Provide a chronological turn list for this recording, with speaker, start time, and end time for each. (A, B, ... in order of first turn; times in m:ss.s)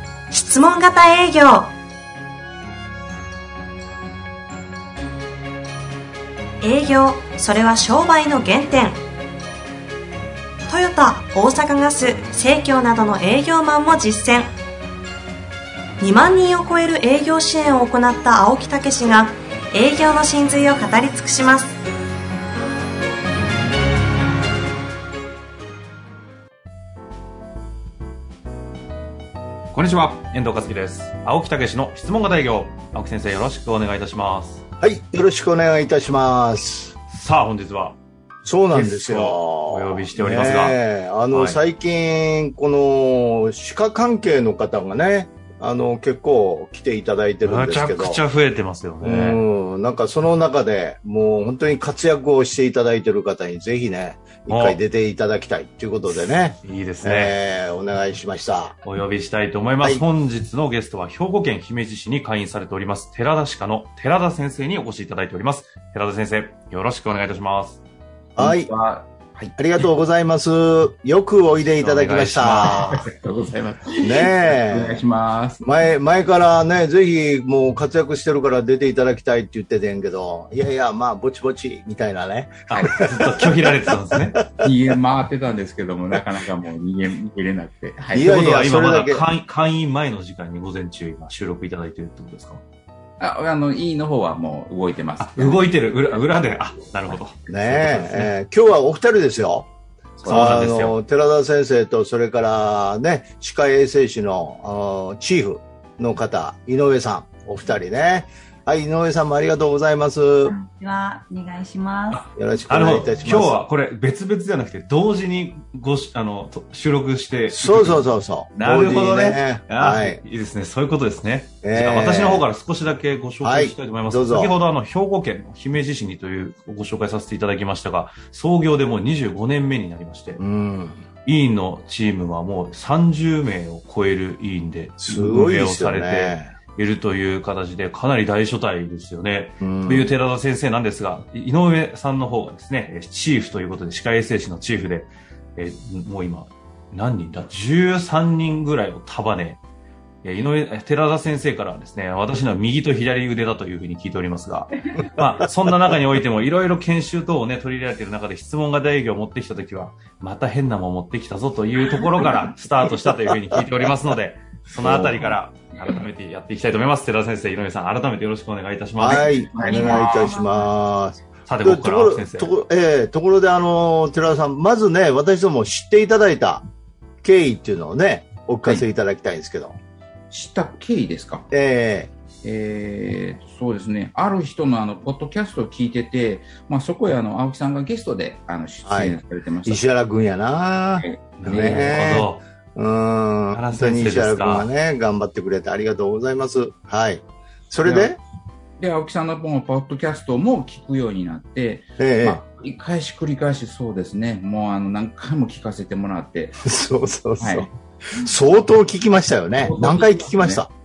0:00.3-0:01.7 A
0:06.6-0:09.0 A
0:10.7-0:14.5 A
0:16.0-0:21.8 A
0:29.7-0:34.6 B
0:34.8-0:37.0 C
0:37.1-0:38.0 B
0:38.4-0:48.2 C
0:38.7-0:40.8 B
0:41.3-0:41.6 B
0:47.4-0:49.4 B
0:49.0-0:58.8 C
0:54.5-0:54.8 B
0:56.6-0:57.4 B
0:58.8-1:07.8 B
1:08.4-1:08.7 C
1:08.4-1:09.9 D
1:09.6-1:13.0 C
1:11.8-1:12.9 B
1:12.6-1:15.6 D
1:14.0-1:15.0 C
1:15.6-1:24.7 C
1:22.7-1:24.4 B
1:22.7-1:23.0 D
1:24.6-1:28.4 D
1:28.1-1:29.2 C
1:28.2-1:32.6 B
1:33.2-1:35.7 D
1:35.2-1:37.4 B
1:37.1-1:38.3 D
1:37.5-1:39.7 C
1:40.2-1:40.7 D
1:40.2-1:41.0 B
1:40.3-1:50.6 C
1:50.4-1:52.2 E
1:52.1-2:10.4 B
1:52.3-1:53.6 C
1:57.5-2:00.2 C
2:01.6-2:02.4 C
2:03.4-2:04.5 C
2:10.4-2:11.0 C
2:11.2-2:29.6 B
2:15.0-2:16.5 C
2:19.6-2:20.1 C
2:30.2-2:49.3 B
2:44.8-2:45.4 D
2:49.0-2:56.6 C
2:49.5-2:50.4 D
2:49.5-2:50.7 E
2:51.5-2:52.5 B
2:57.2-2:59.8 C
3:00.3-3:01.5 D
3:01.5-3:02.1 C
3:02.4-3:09.8 D
3:08.9-3:18.2 C
3:11.0-3:12.0 D
3:11.4-3:12.4 B
3:13.5-3:14.7 B
3:17.8-3:18.1 D
3:18.8-3:26.7 D
3:22.0-3:22.4 C
3:26.7-3:30.7 C
3:27.4-3:27.7 D
3:29.5-3:30.6 D